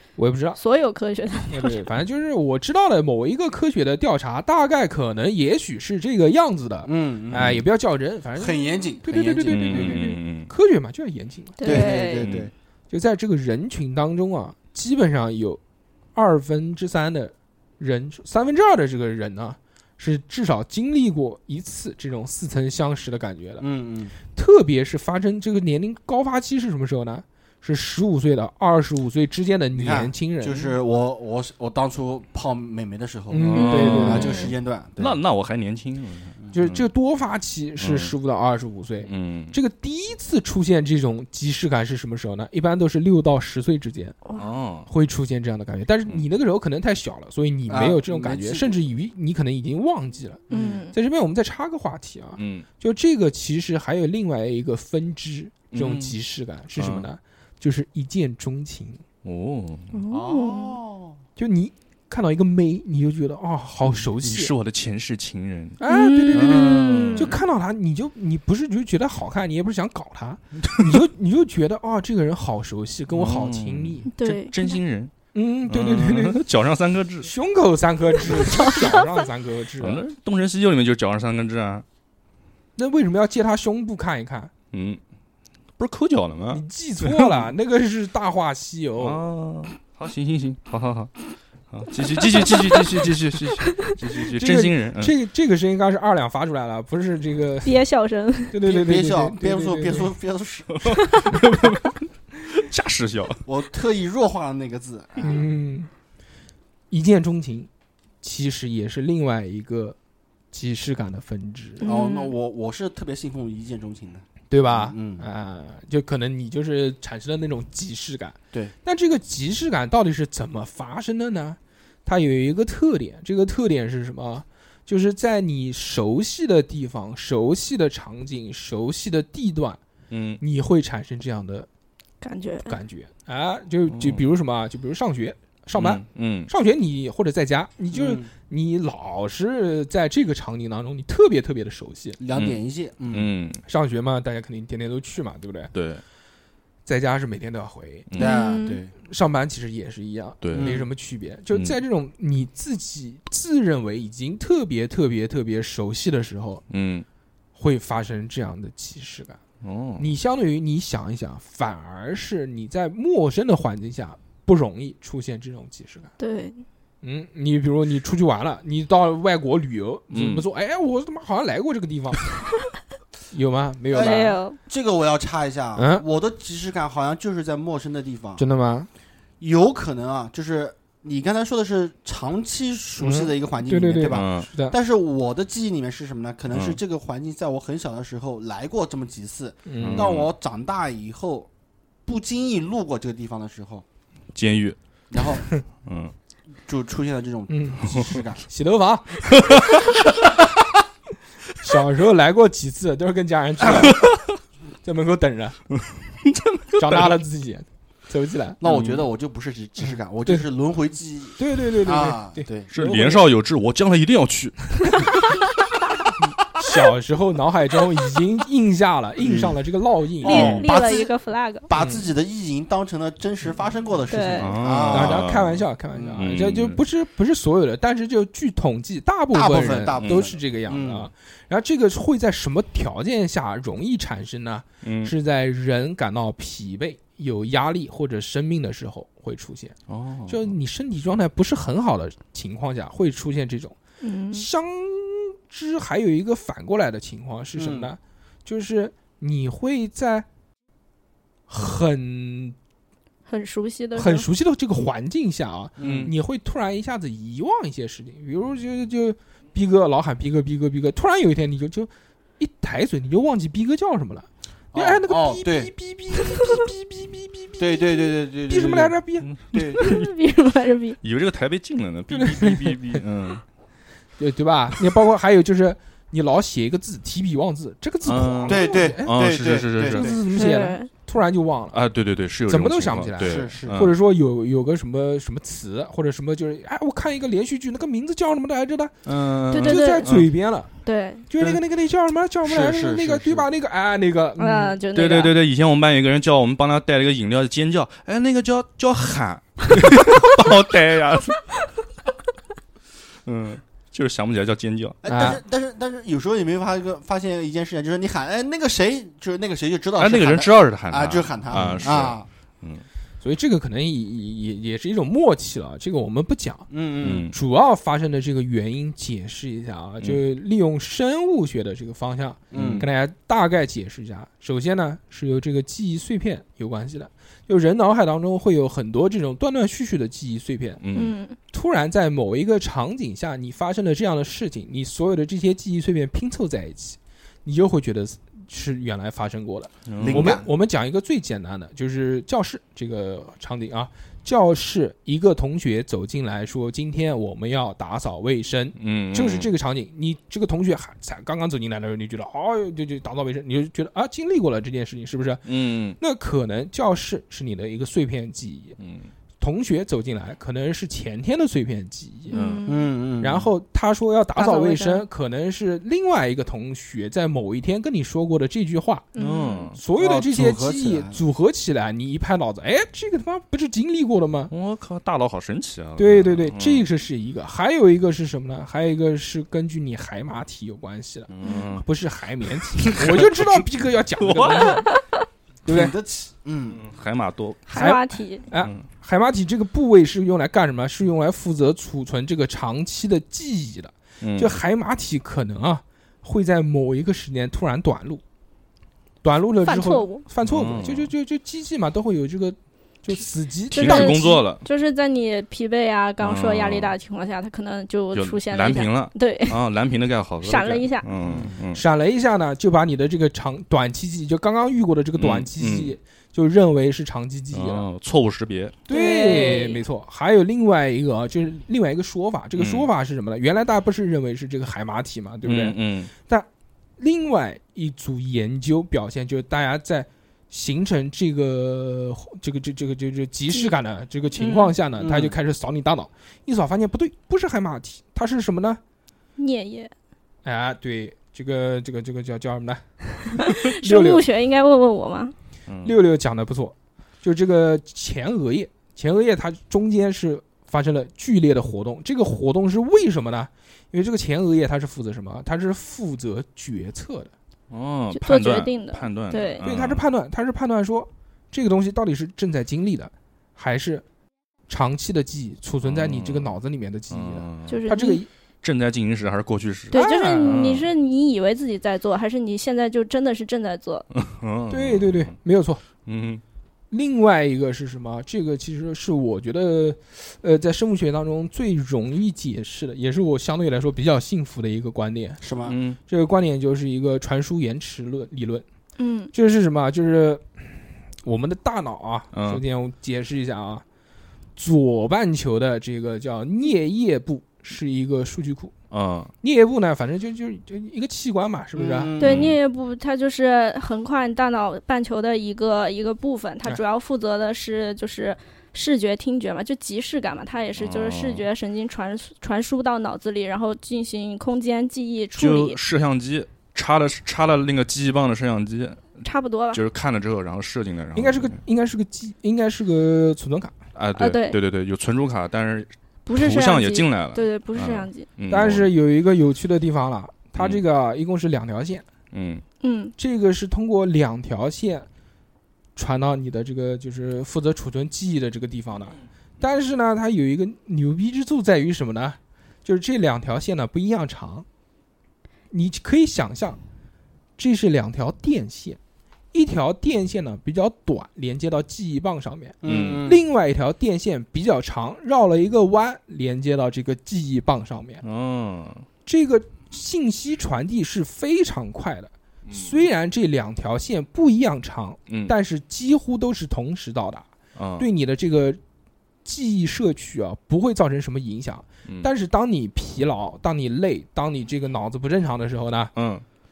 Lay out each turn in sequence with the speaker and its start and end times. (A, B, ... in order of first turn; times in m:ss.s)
0:00.2-0:00.6 A
0:00.6-0:01.8 B
0:01.5-0:11.9 A
0:06.8-0:07.6 C
0:07.3-0:07.6 D
0:08.4-0:10.0 C
0:09.5-0:10.5 D
0:11.6-0:12.3 B
0:11.6-0:12.5 C
0:11.7-0:12.5 D
0:12.9-0:15.6 A
0:16.1-0:23.6 A
0:23.6-0:24.2 C
0:24.2-0:30.7 A
0:29.7-0:35.2 C
0:33.3-0:34.3 A
0:33.3-0:34.4 D
0:33.5-0:34.5 B
0:35.0-0:36.8 D
0:36.5-0:44.2 A
0:37.8-0:38.1 D
0:39.0-0:39.6 D
0:44.4-0:44.9 D
0:44.9-0:50.4 A
0:47.7-0:48.7 C
0:50.5-0:50.8 C
0:50.5-0:50.9 B
0:50.9-0:59.0 A
0:52.4-0:52.7 D
0:55.7-0:56.2 D
0:56.8-0:57.1 D
0:59.2-1:00.0 D
0:59.9-1:00.8 B
1:00.1-1:01.2 C
1:01.4-1:04.5 A
1:03.9-1:05.8 D
1:05.8-1:14.1 A
1:05.8-1:07.4 B
1:06.3-1:07.4 D
1:10.6-1:11.0 D
1:13.1-1:15.1 D
1:14.1-1:14.8 B
1:15.3-1:16.4 A
1:15.6-1:17.3 D
1:17.2-1:20.0 A
1:18.3-1:19.1 B
1:19.8-1:21.8 D
1:22.8-1:24.5 A
1:24.7-1:25.0 D
1:25.8-1:27.5 D
1:26.5-1:29.2 A
1:29.0-1:31.1 D
1:31.7-1:35.1 D
1:34.2-1:37.8 A
1:37.6-1:38.6 B
1:38.5-1:40.1 A
1:38.6-1:41.3 C
1:40.7-1:43.4 D
1:43.4-1:45.5 C
1:45.2-1:45.9 A
1:46.9-1:47.7 A
1:48.2-1:50.0 A
1:50.5-1:51.8 A
1:51.8-1:52.3 B
1:51.8-1:55.2 C
1:54.5-2:09.8 A
2:10.1-2:10.4 D
2:10.4-2:11.7 A
2:12.2-2:12.8 B
2:12.6-2:22.2 A
2:13.9-2:14.2 D
2:15.8-2:16.5 D
2:17.9-2:18.3 C
2:22.2-2:23.3 C
2:22.3-2:23.6 D
2:23.6-2:25.7 A
2:25.7-2:26.0 D
2:26.8-2:28.1 A
2:28.1-2:28.4 D
2:28.1-2:28.9 C
2:28.2-2:28.8 B
2:29.0-2:36.6 A
2:30.4-2:30.8 D
2:30.5-2:30.9 C
2:36.7-2:37.0 D
2:37.5-2:39.4 A
2:39.6-2:40.1 D
2:40.0-2:46.1 A
2:46.2-2:46.6 B
2:47.0-2:52.3 A
2:50.1-2:50.4 D
2:53.3-2:54.4 A
2:53.9-2:58.4 C
2:54.0-2:54.6 B
2:55.8-2:56.0 A
2:58.4-2:58.9 A
2:59.4-3:11.5 C
3:03.0-3:04.8 A
3:04.0-3:04.5 D
3:06.5-3:06.8 D
3:09.6-3:10.1 A
3:09.8-3:10.3 D
3:12.0-3:13.8 C
3:14.3-3:15.3 D
3:15.1-3:15.4 C
3:15.8-3:16.1 D
3:16.6-3:18.4 C
3:17.5-3:19.7 A
3:21.6-3:24.1 A
3:23.7-3:24.2 D
3:24.8-3:25.6 A
3:26.2-3:27.2 D
3:26.8-3:28.6 A
3:28.6-3:32.7 C
3:28.6-3:29.0 D
3:31.4-3:33.2 A
3:32.7-3:35.1 D
3:36.6-3:40.6 A
3:39.2-3:39.6 C
3:40.2-3:41.1 C
3:40.2-3:41.6 B
3:41.7-3:45.2 C
3:41.7-3:42.0 A
3:44.1-3:44.5 B
3:44.4-3:45.6 D
3:44.8-3:59.8 A
3:45.9-3:46.2 C
3:46.1-3:46.8 D
3:49.3-3:51.1 C
3:50.0-3:50.3 D
3:54.8-3:55.1 D
3:59.9-4:00.4 D
4:00.3-4:03.8 A
4:04.0-4:04.4 B
4:04.3-4:10.2 A
4:07.6-4:07.9 C
4:11.5-4:12.6 A
4:13.2-4:14.3 B
4:13.9-4:29.3 A
4:15.8-4:16.1 C
4:15.8-4:16.1 D
4:24.7-4:25.7 C
4:27.6-4:29.0 C
4:29.2-4:30.1 D
4:29.5-4:29.8 C
4:29.6-4:31.0 B
4:31.0-4:33.4 D
4:32.1-4:33.0 A
4:34.2-4:41.8 A
4:38.0-4:40.2 D
4:38.5-4:40.2 C
4:40.3-4:40.9 B
4:41.7-4:43.9 D
4:42.5-4:49.0 A
4:43.2-4:43.8 C
4:49.0-4:50.3 D
4:49.5-4:50.7 A
4:49.5-4:50.2 B
4:50.8-4:51.2 B
4:51.3-4:54.8 A
4:52.4-4:53.5 C
4:54.4-4:55.3 B
4:54.9-5:01.5 D
5:03.2-5:05.0 D
5:05.0-5:12.3 C
5:05.0-5:05.4 A
5:10.0-5:12.8 D
5:13.2-5:30.8 A
5:16.7-5:17.3 C
5:17.0-5:17.3 D
5:22.5-5:22.8 C
5:22.5-5:22.8 D
5:30.8-5:31.2 D
5:30.9-5:31.4 B
5:31.5-5:58.8 A
5:39.8-5:40.4 D
5:40.0-5:40.4 C
5:48.8-5:49.5 D
5:55.4-5:56.0 D
5:58.8-5:59.1 D
5:59.4-6:02.4 A
6:02.3-6:02.9 B
6:02.3-6:02.7 D
6:02.7-6:03.5 C
6:03.2-6:09.1 A
6:04.4-6:05.0 B
6:09.1-6:09.7 B
6:09.2-6:09.8 D
6:09.7-6:14.5 A
6:10.0-6:11.2 C
6:14.5-6:16.9 D
6:16.0-6:24.9 A
6:21.3-6:21.8 D
6:22.8-6:23.6 D
6:24.2-6:24.8 D
6:25.6-6:25.9 A
6:25.6-6:26.8 C
6:26.7-6:27.7 D
6:27.7-6:28.4 B
6:27.7-6:38.2 A
6:28.5-6:28.8 D
6:34.2-6:34.5 D
6:39.2-6:44.4 A
6:39.6-6:40.2 B
6:40.4-6:41.1 D
6:43.7-6:44.6 D
6:43.7-6:49.6 B
6:46.2-6:47.0 D
6:48.1-6:51.8 D
6:50.4-6:51.1 B
6:51.2-6:51.6 C
6:51.7-6:57.9 A
6:55.2-6:56.0 D
6:57.5-6:58.8 D
6:58.9-7:06.5 A
6:58.9-6:59.8 B
7:02.6-7:02.9 D
7:05.4-7:06.1 D
7:07.0-7:18.8 A
7:14.4-7:14.7 B
7:15.0-7:15.4 C
7:19.4-7:19.9 B
7:20.4-7:24.2 A
7:23.4-7:25.3 B
7:25.7-7:25.9 D
7:25.8-7:37.3 A
7:37.7-7:40.0 D
7:38.1-7:39.6 B
7:39.6-7:44.0 A
7:44.7-7:48.3 A
7:45.8-7:46.6 D
7:47.1-7:47.8 D
7:47.7-7:48.2 B
7:48.6-7:50.9 D
7:49.9-7:54.0 B
7:54.1-7:55.3 D
7:54.7-7:55.8 A
7:56.0-7:56.4 D
7:56.9-8:05.4 A
8:05.4-8:05.8 C
8:05.6-8:06.0 D
8:06.1-8:08.6 A
8:09.0-8:09.3 B
8:09.3-8:13.8 A
8:12.3-8:12.6 D
8:14.6-8:18.7 A
8:18.9-8:19.3 D
8:19.4-8:22.1 A
8:21.8-8:22.5 C
8:22.2-8:35.8 B
8:22.2-8:22.6 D
8:30.8-8:31.5 D
8:35.4-8:41.6 D
8:39.2-8:39.8 B
8:41.1-8:43.8 A
8:43.9-8:48.9 D
8:44.2-8:44.6 B
8:46.2-8:48.3 B
8:48.5-8:52.0 A
8:52.3-8:52.6 D
8:52.8-8:53.1 B
8:53.2-8:55.1 A
8:56.0-9:04.6 A
9:05.7-9:06.8 A
9:07.6-9:09.0 A
9:09.5-9:18.2 A
9:12.8-9:13.4 C
9:12.8-9:13.2 D
9:18.2-9:19.0 D
9:19.2-9:27.5 A
9:22.6-9:22.9 D
9:25.3-9:25.5 D
9:27.7-9:28.0 D
9:28.0-9:28.8 A
9:29.4-9:36.1 A
9:36.1-9:36.4 D